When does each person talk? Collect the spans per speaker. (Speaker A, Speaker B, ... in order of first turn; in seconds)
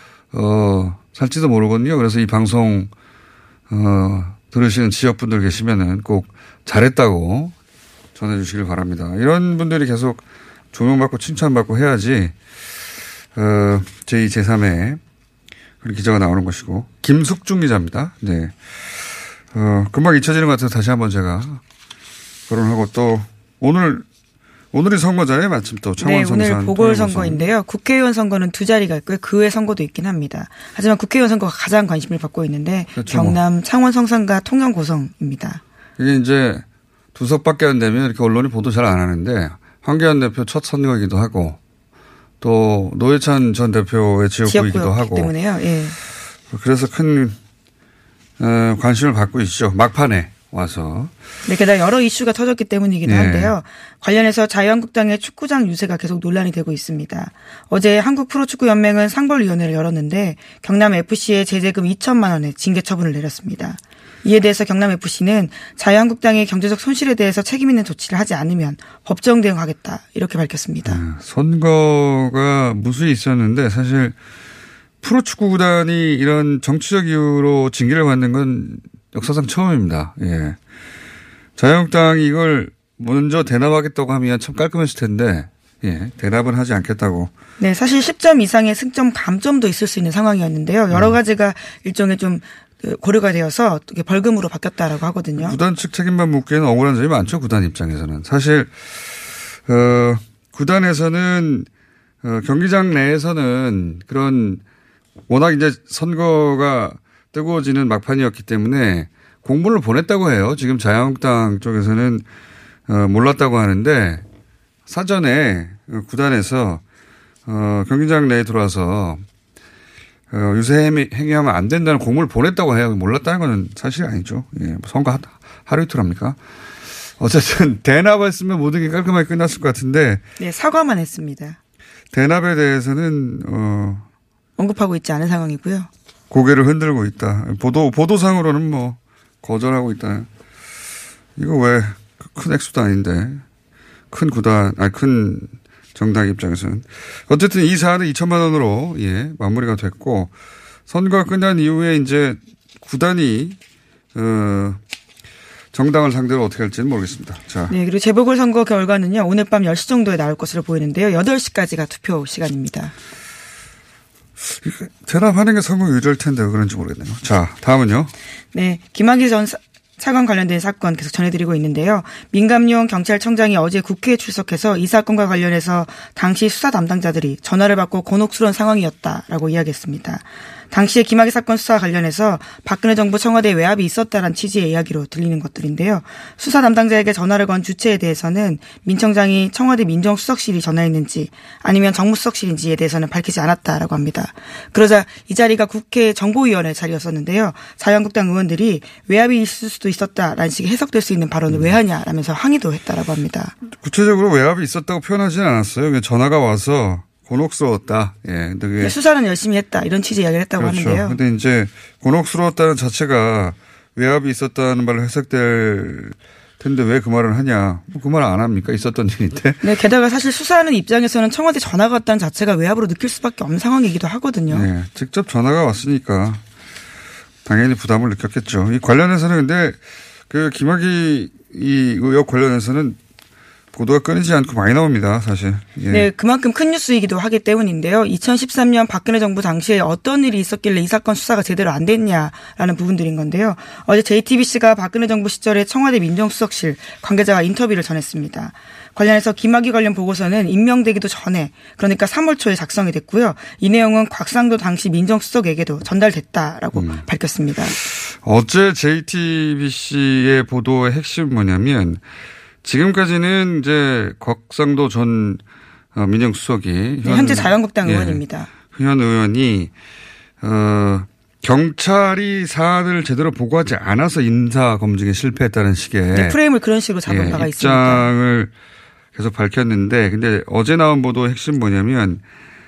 Speaker A: 0.3-2.9, 3.7-7.5, 8.2-12.3, 13.3-15.0, 15.8-21.6, 22.5-24.1, 24.7-27.4, 33.0-33.4, 36.0-36.6, 37.1-41.6, 42.4-45.3, 46.5-47.4, 48.4-51.1, 53.0-53.5, 70.9-74.1, 75.0-80.6, 81.6-87.3, 90.9-91.2, 95.4-101.7, 102.2-104.6, 105.3-112.2, 112.9-114.2, 114.9-116.8, 117.5-119.2, 120.3-126.4, 127.2-130.2, 132.1-134.1, 136.3-140.3, 141.4-143.4, 144.1-150.3, 150.9-153.6, 154.2-154.8, 155.7-157.7, 164.5-168.1, 201.5-201.8, 203.8-208.9, 210.6-219.6, 224.5-226.4, 227.4-229.8, 230.3-233.0, 233.7-236.1, 256.7-257.0, 257.8-262.0, 262.6-265.4, 265.9-269.7, 270.4-276.4, 277.1-278.5, 279.1-282.2
Speaker B: 26.0-35.6, 44.5-46.0, 51.5-71.0, 87.6-95.6, 130.4-131.6, 134.6-135.9, 157.7-162.9, 168.5-203.6, 208.8-211.2, 219.6-224.7, 235.9-257.8, 267.0-268.5, 276.1-278.1